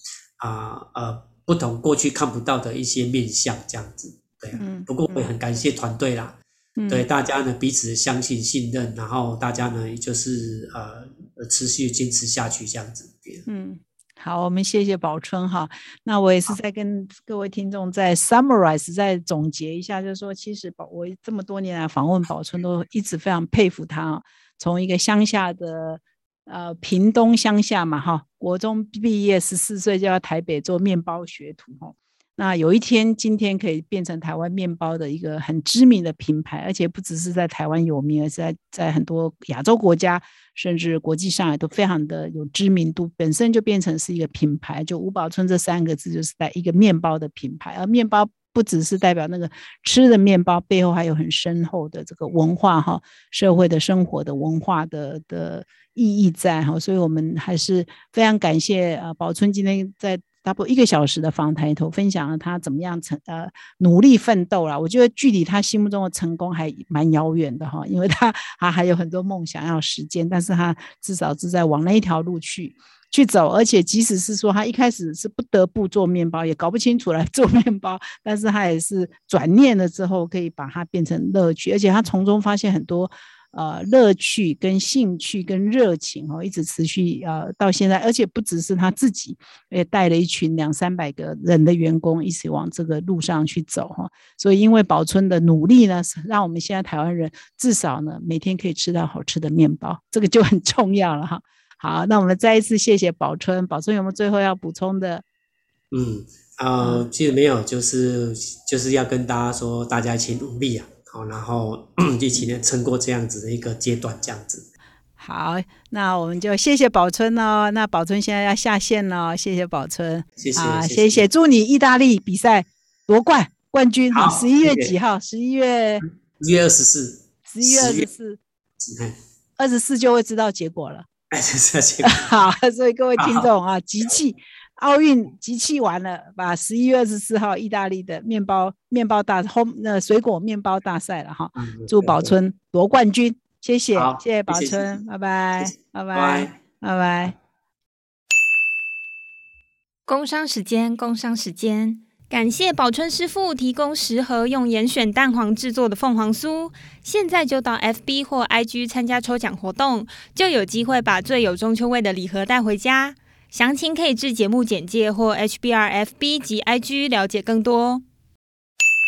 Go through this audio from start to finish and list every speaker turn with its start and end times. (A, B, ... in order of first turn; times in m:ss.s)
0:00.4-0:13.4 A
0:04.6-0:05.3 B
0:06.8-0:07.1 B
0:13.5-1:45.2 B
1:45.9-1:54.7 A
1:46.8-1:47.0 B
1:55.2-2:06.0 B
2:00.4-2:01.2 A
2:04.1-2:04.9 A
2:06.0-2:08.1 A
2:07.5-2:08.4 B
2:08.8-2:09.2 A
2:09.6-2:11.1 B
2:11.3-2:12.3 A
2:12.0-2:27.3 B
2:13.2-2:13.5 A
2:21.5-2:22.4 A
2:23.9-2:25.0 A
2:25.6-2:26.6 A
2:30.1-2:48.0 C